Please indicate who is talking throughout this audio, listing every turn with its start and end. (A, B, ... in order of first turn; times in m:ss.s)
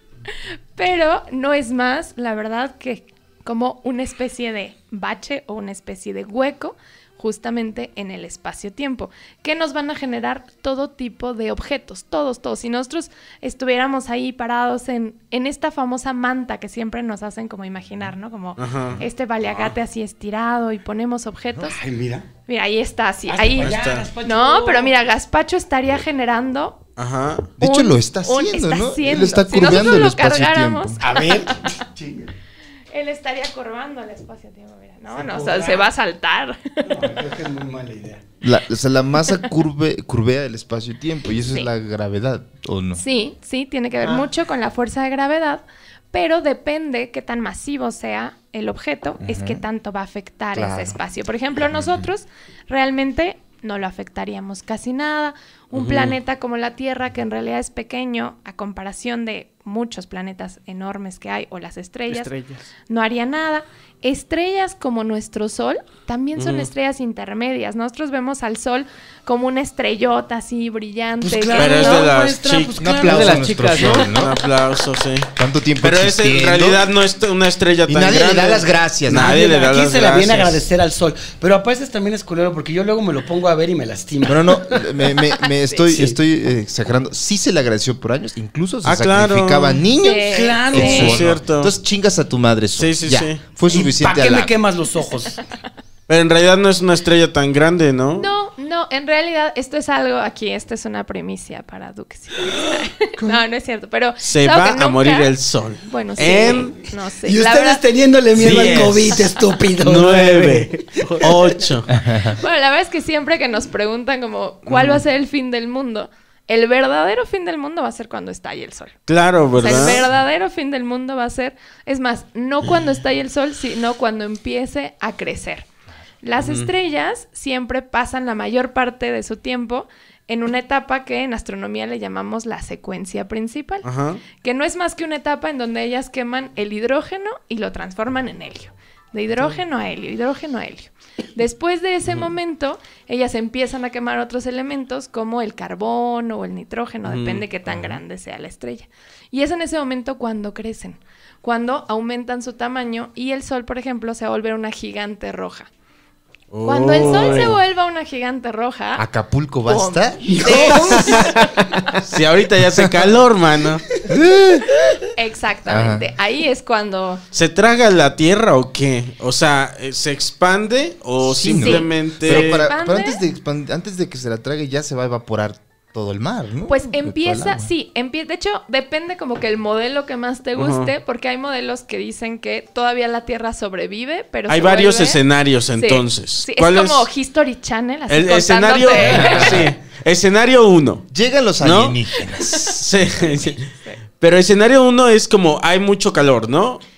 0:00.8-0:21.8 A
0:18.6-0:19.0 B
0:21.6-0:22.3 C
0:22.4-0:26.8 A
0:23.3-0:24.9 C
0:23.6-0:24.1 B
0:27.0-0:27.5 B
0:27.6-0:31.0 D
0:27.6-0:31.8 A
0:31.0-0:32.3 C
0:32.9-0:37.1 A
0:35.1-0:35.9 C
0:36.8-0:38.2 C
0:38.4-0:43.0 D
0:42.9-1:02.3 A
0:49.2-0:49.6 D
0:50.5-0:51.0 D
0:51.7-0:52.0 D
0:55.7-0:56.2 B
1:02.1-1:02.7 E
1:02.9-1:12.1 A
1:06.4-1:06.7 B
1:11.2-1:14.0 C
1:11.5-1:12.7 B
1:12.8-1:14.4 D
1:13.0-1:14.2 E
1:13.8-1:20.6 B
1:15.4-1:16.8 D
1:17.9-1:19.4 D
1:19.1-1:24.8 C
1:24.2-1:34.5 D
1:25.5-1:25.9 A
1:25.9-1:26.2 C
1:28.8-1:29.8 B
1:30.0-1:31.2 A
1:30.3-1:31.3 C
1:30.7-1:31.7 B
1:32.8-1:33.4 B
1:33.7-1:35.4 C
1:36.1-1:38.3 B
1:38.2-1:45.3 A
1:44.2-1:46.7 B
1:45.8-1:47.8 A
1:47.2-1:51.5 C
1:48.4-1:49.3 B
1:48.8-1:49.3 A
1:49.8-1:51.9 B
1:50.3-1:51.3 E
1:51.9-1:52.4 D
1:52.2-1:59.0 A
1:54.6-1:55.0 B
1:59.1-2:00.1 B
1:59.6-2:05.7 A
2:06.2-2:35.7 A
2:06.4-2:06.7 B
2:13.8-2:14.2 B
2:27.0-2:28.0 B
2:36.5-2:37.6 B
2:36.6-2:39.0 A
2:39.0-2:40.4 D
2:39.6-2:41.4 A
2:40.2-2:41.5 C
2:42.0-2:43.8 B
2:42.8-2:43.1 D
2:44.0-2:44.8 D
2:45.2-2:47.2 A
2:45.7-2:46.1 D
2:47.3-2:52.7 B
2:51.2-2:57.7 D
2:51.6-2:53.2 A
2:56.7-3:05.2 A
3:00.6-3:00.9 B
3:04.5-3:07.1 B
3:05.8-3:09.7 A
3:08.1-3:11.1 B
3:09.1-3:09.7 D
3:11.1-3:13.3 D
3:11.6-3:12.0 B
3:12.6-3:16.8 B
3:12.7-3:14.0 A